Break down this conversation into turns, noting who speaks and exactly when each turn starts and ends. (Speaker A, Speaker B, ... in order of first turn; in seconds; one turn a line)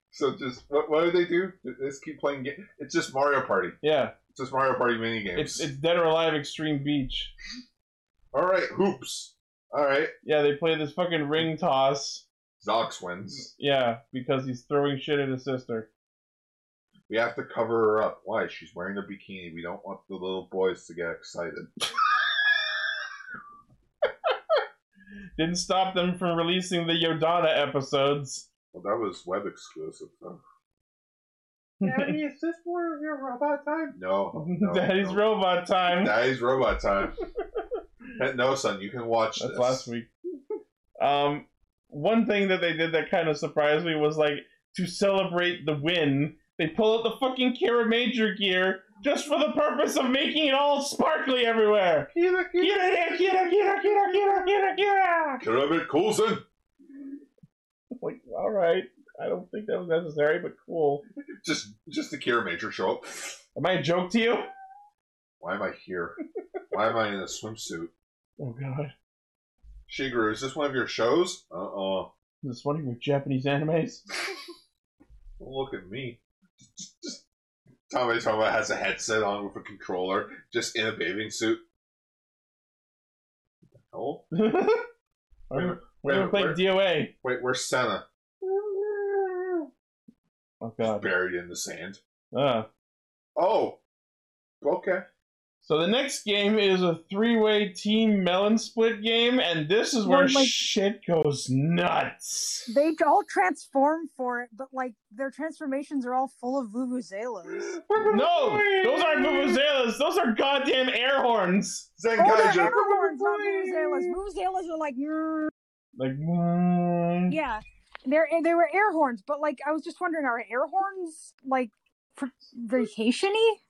Speaker A: 0.1-3.8
Speaker B: 3.8-4.1
Speaker A: 4.3-5.7
Speaker B: 5.3-7.3
Speaker A: 8.3-10.1
Speaker B: 10.2-12.2
Speaker A: 12.6-13.5
Speaker B: 13.6-15.9
Speaker A: 17.1-21.7
Speaker B: 25.4-28.5
Speaker A: 28.7-30.4
Speaker A: 31.8-35.2
Speaker B: 31.8-32.1
Speaker B: 34.3-36.1
Speaker A: 35.9-37.1
Speaker A: 38.1-39.9
Speaker B: 39.4-40.1
Speaker B: 41.0-55.4
Speaker A: 52.1-53.0
Speaker A: 55.4-56.4
Speaker B: 58.0-61.0
Speaker A: 61.4-63.4
Speaker B: 63.5-64.5
Speaker A: 65.4-66.2
Speaker A: 66.7-67.9
Speaker B: 68.4-68.9
Speaker A: 69.9-72.1
Speaker B: 72.4-74.0
Speaker A: 75.4-77.2
Speaker A: 77.9-81.6
Speaker A: 83.8-84.2
Speaker B: 84.3-84.9
Speaker B: 85.5-87.1
Speaker A: 85.5-86.6
Speaker A: 87.2-89.7
Speaker B: 90.6-91.1
Speaker A: 90.8-92.0
Speaker B: 92.3-92.7
Speaker A: 93.3-93.8
Speaker A: 94.6-95.0
Speaker B: 95.6-102.7
Speaker C: 100.0-100.5
Speaker C: 102.7-107.7
Speaker A: 107.6-109.6
Speaker B: 108.0-111.9
Speaker A: 112.0-114.2
Speaker C: 112.2-115.5
Speaker B: 116.0-117.4
Speaker C: 117.3-123.6